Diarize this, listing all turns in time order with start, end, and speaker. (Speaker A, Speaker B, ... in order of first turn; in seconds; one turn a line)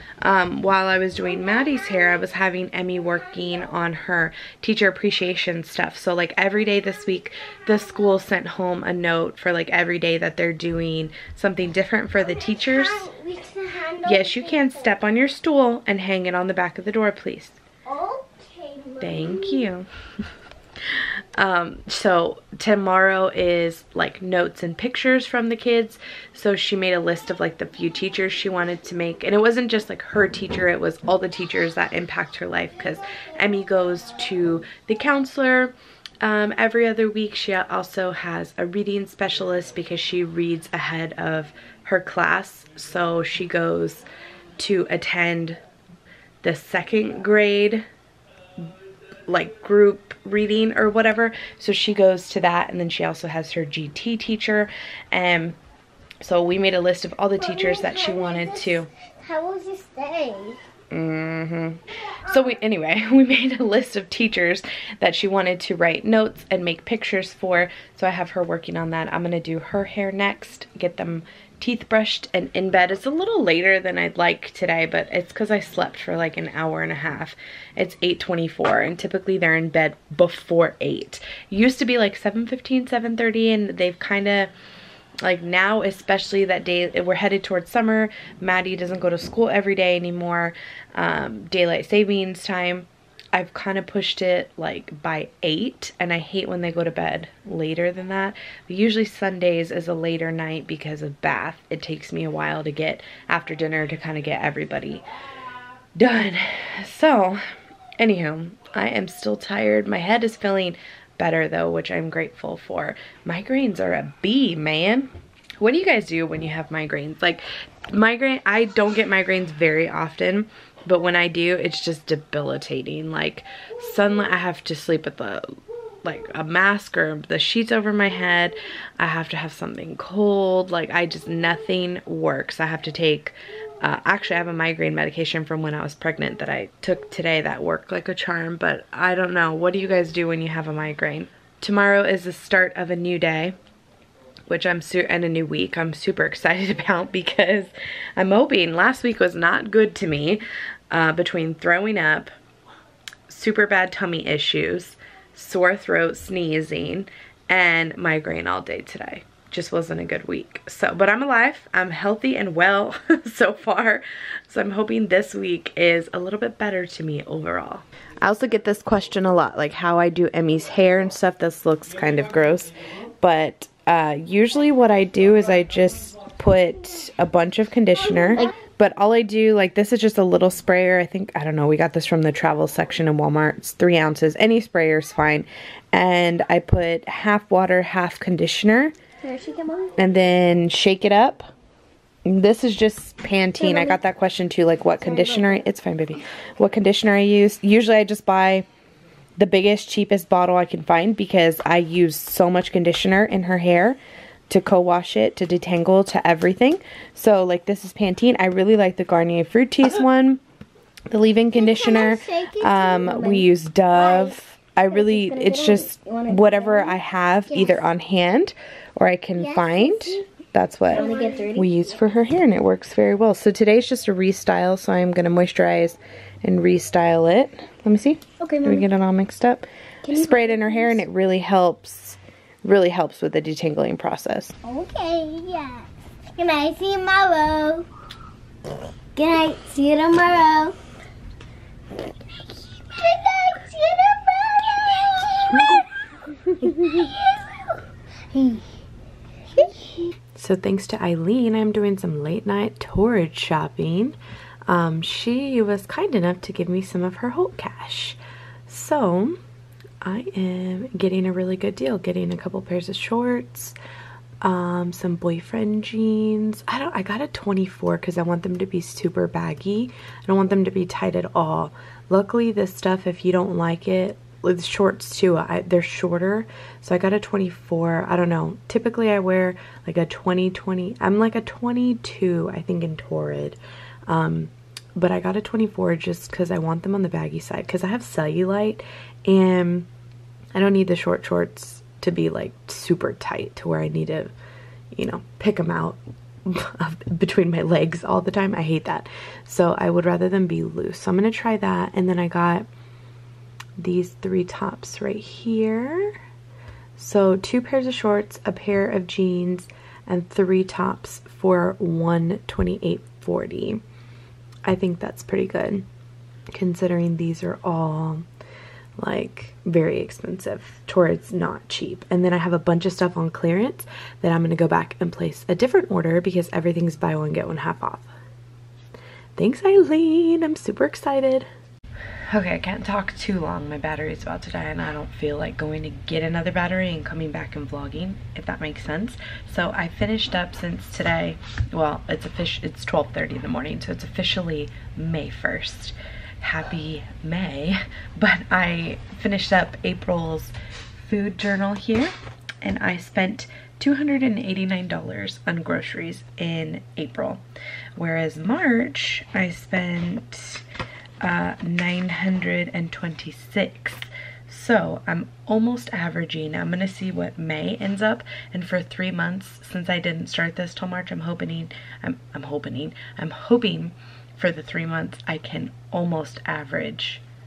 Speaker A: 0.2-13.1
Speaker B: 12.2-15.0
Speaker A: 14.0-17.6
Speaker B: 17.9-19.6
Speaker A: 19.0-19.9
Speaker A: 20.9-45.6
Speaker A: 46.4-47.8
Speaker A: 49.3-55.6
Speaker A: 56.2-58.9
Speaker B: 57.4-60.6
Speaker A: 60.9-84.5
Speaker A: 85.2-105.0
Speaker A: 106.0-107.4
Speaker A: 108.0-143.6
Speaker A: 144.5-152.3
Speaker A: 153.3-188.9
Speaker B: 189.2-189.9
Speaker A: 190.0-191.5
Speaker A: 192.2-198.7
Speaker B: 193.6-194.0
Speaker B: 195.2-195.5
Speaker A: 199.4-204.0
Speaker A: 204.5-210.4
Speaker A: 211.1-234.5
Speaker B: 211.5-214.4
Speaker B: 214.9-217.0
Speaker B: 217.5-217.8
Speaker B: 219.3-220.2
Speaker B: 220.9-221.7
Speaker B: 228.4-228.8
Speaker B: 230.0-231.0
Speaker B: 234.6-237.9
Speaker B: 239.1-240.8
Speaker B: 242.6-245.9
Speaker A: 245.5-245.8
Speaker B: 246.5-248.6
Speaker B: 249.6-250.0
Speaker A: 250.3-259.4
Speaker A: 260.0-263.8
Speaker A: 264.4-289.9
Speaker A: 290.5-294.3
Speaker A: 294.9-302.7
Speaker A: 303.8-306.2
Speaker A: 306.9-313.8
Speaker A: 314.6-315.9
Speaker A: 316.5-318.3
Speaker A: 319.0-328.1
Speaker A: 329.4-331.5
Speaker A: 332.3-357.4
Speaker A: 357.9-360.6
Speaker A: 361.2-377.2